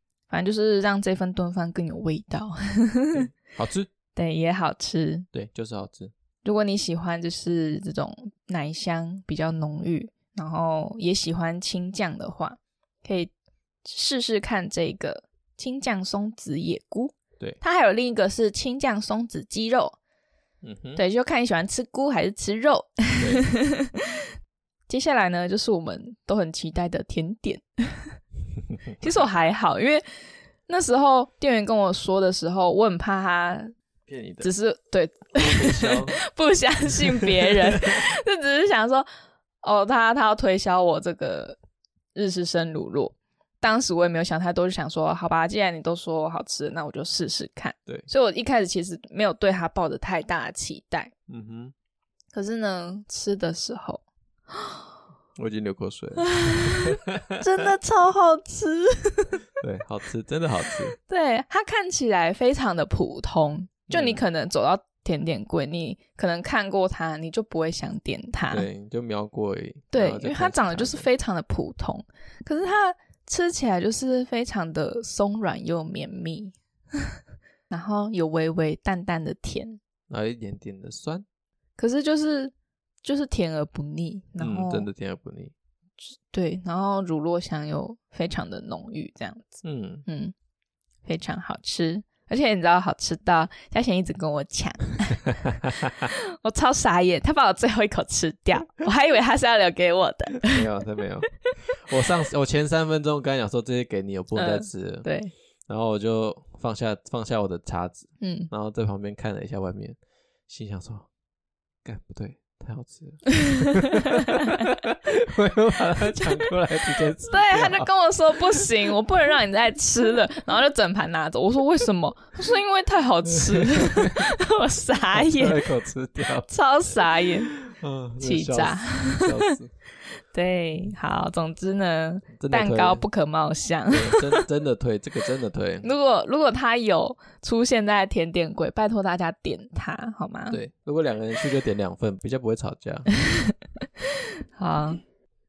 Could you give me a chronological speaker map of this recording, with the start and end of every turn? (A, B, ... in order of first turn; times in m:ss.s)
0:00.3-0:03.3 A
0:03.1-0:03.9 B
0:04.1-0:05.3 A
0:05.3-0:06.1 B
0:06.4-0:13.3 A
0:13.8-0:20.0 A
0:20.6-0:21.0 B
0:21.0-0:24.2 A
0:23.2-0:23.4 B
0:24.9-0:28.2 A
0:29.0-0:30.0 A
0:30.7-0:33.7 A
0:34.1-0:34.5 B
0:34.4-0:39.1 A
0:35.4-0:36.2 B
0:37.0-0:38.0 B
0:39.6-0:41.6 A
0:42.2-0:51.1 A
0:51.3-0:51.7 B
0:52.3-0:54.0 A
0:55.4-0:57.4 B
0:56.2-0:59.4 A
0:59.6-1:01.0 B
1:01.0-1:08.7 A
1:03.9-1:04.2 B
1:08.5-1:11.1 B
1:09.9-1:16.6 A
1:17.7-1:19.8 A
1:20.1-1:21.2 B
1:21.8-1:24.9 A
1:24.4-1:25.5 B
1:26.3-1:30.3 A
1:29.6-1:30.0 B
1:31.1-1:35.4 A
1:35.6-1:35.9 B
1:36.0-1:40.7 A
1:40.4-1:45.1 B
1:44.4-1:45.3 A
1:45.7-1:50.0 B
1:48.2-1:48.5 A
1:50.5-1:51.1 B
1:51.8-1:57.9 B
1:53.5-1:54.7 A
1:57.2-2:05.6 A
2:03.4-2:04.3 B
2:05.1-2:06.5 B
2:06.5-2:07.5 A
2:07.5-2:09.7 B
2:08.2-2:09.6 A
2:10.3-2:14.4 A
2:12.4-2:13.0 B
2:13.9-2:15.9 B
2:15.8-2:20.6 A
2:20.5-2:23.1 B
2:23.2-2:23.5 A
2:24.6-2:25.0 A